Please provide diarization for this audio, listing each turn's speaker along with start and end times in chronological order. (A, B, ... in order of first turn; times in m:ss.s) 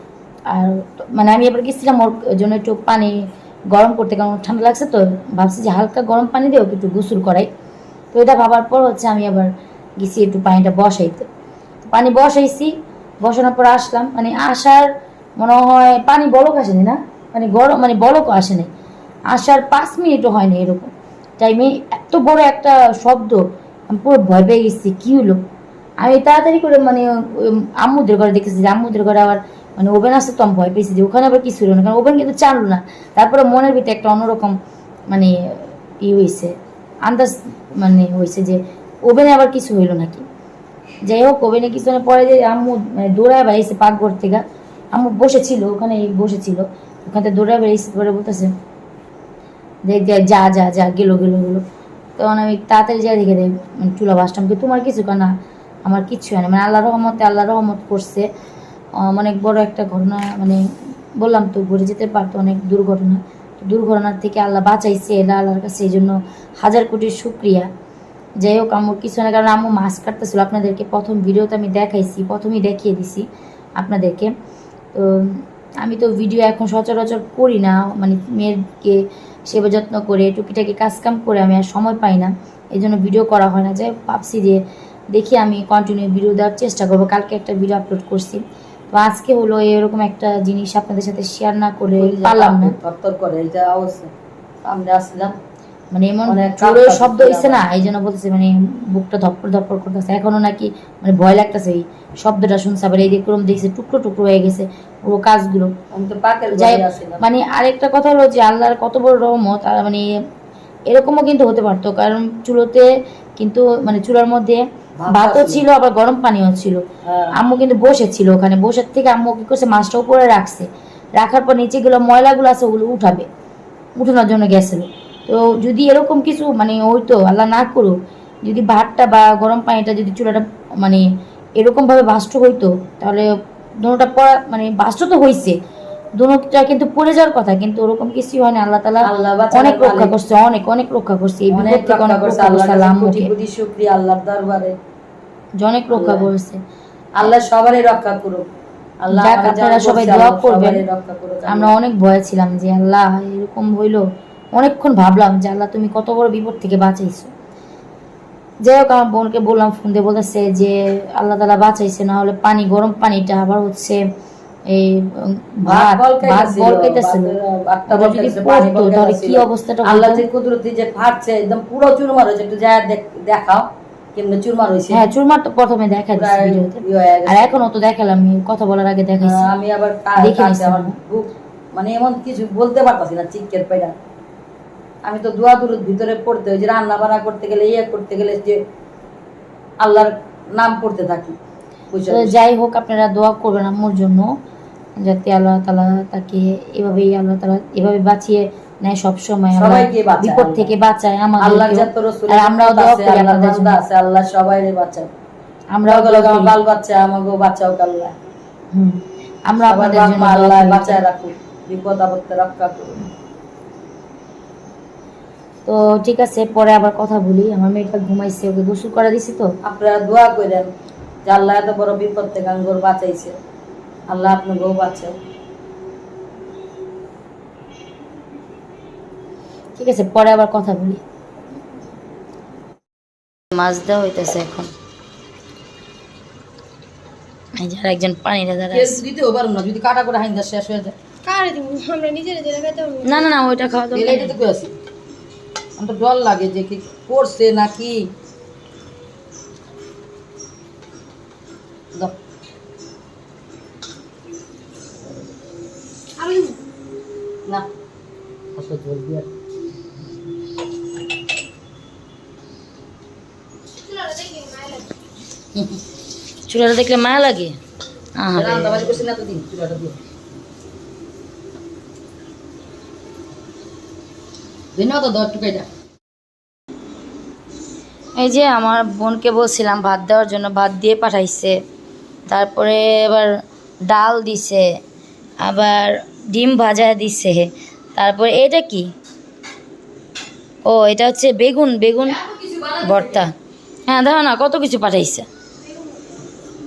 0:00.5-0:03.2 A
0:03.7-0:07.5 A
0:08.1-0:11.3 A
0:11.9-0:14.9 A
0:15.4-0:18.7 A
0:19.3-0:25.4 A
0:26.0-0:34.6 A
0:35.1-0:40.3 A
0:41.0-0:48.5 A
0:49.9-0:51.6 A
0:52.2-0:55.3 A
0:55.8-0:58.3 A
0:59.0-1:00.6 A
1:01.2-1:07.7 A
1:08.4-1:13.3 A
1:13.8-1:14.3 A
1:14.9-1:24.6 A
1:25.1-1:32.8 A
1:32.0-1:34.1 B
1:34.6-1:35.4 B
1:35.9-1:45.7 A
1:36.3-1:37.7 B
1:45.9-1:47.2 B
1:46.5-1:50.1 A
1:50.9-1:52.9 A
1:53.4-1:56.8 A
1:55.0-1:55.6 B
1:57.0-1:57.4 B
1:57.3-2:03.3 A
2:04.0-2:11.0 A
2:11.6-2:13.3 A
2:13.8-2:15.6 A
2:16.2-2:23.3 A
2:19.0-2:20.1 B
2:21.5-2:24.8 B
2:25.6-2:26.6 A
2:25.9-2:26.3 B
2:27.2-2:31.7 B
2:29.1-2:30.8 A
2:31.5-2:37.3 A
2:38.6-2:44.0 A
2:44.7-2:47.3 A
2:45.7-2:55.1 B
2:47.9-2:50.3 A
2:54.9-2:59.5 A
2:56.1-2:57.7 B
2:59.2-3:04.0 B
3:00.2-3:01.0 A
3:05.0-3:08.6 B
3:09.8-3:11.4 B
3:11.9-3:12.4 B
3:12.1-3:14.3 A
3:15.0-3:23.8 A
3:19.6-3:20.7 B
3:21.4-3:25.1 B
3:25.7-3:26.6 A
3:25.9-3:28.2 B
3:28.7-3:31.0 A
3:29.7-3:33.1 B
3:35.7-3:39.5 A
3:39.6-3:40.7 B
3:41.2-3:43.4 B
3:44.1-3:45.2 B
3:49.8-3:51.0 A
3:53.5-3:54.7 A
3:57.6-3:59.0 A
3:58.7-4:01.0 B
4:01.2-4:03.2 C
4:03.0-4:04.4 A
4:03.9-4:04.7 B
4:05.8-4:08.1 B
4:16.2-4:16.6 C
4:18.6-4:19.3 B
4:23.8-4:24.9 C
4:26.5-4:27.6 A
4:28.2-4:29.0 A
4:28.4-4:30.0 B
4:34.8-4:35.7 B
4:38.2-4:41.6 A
4:42.3-4:43.3 A
4:43.8-4:44.7 A
4:45.4-4:48.9 A
4:50.7-4:52.2 A
4:52.1-4:53.3 B
4:52.8-4:53.3 A
4:53.9-4:55.3 A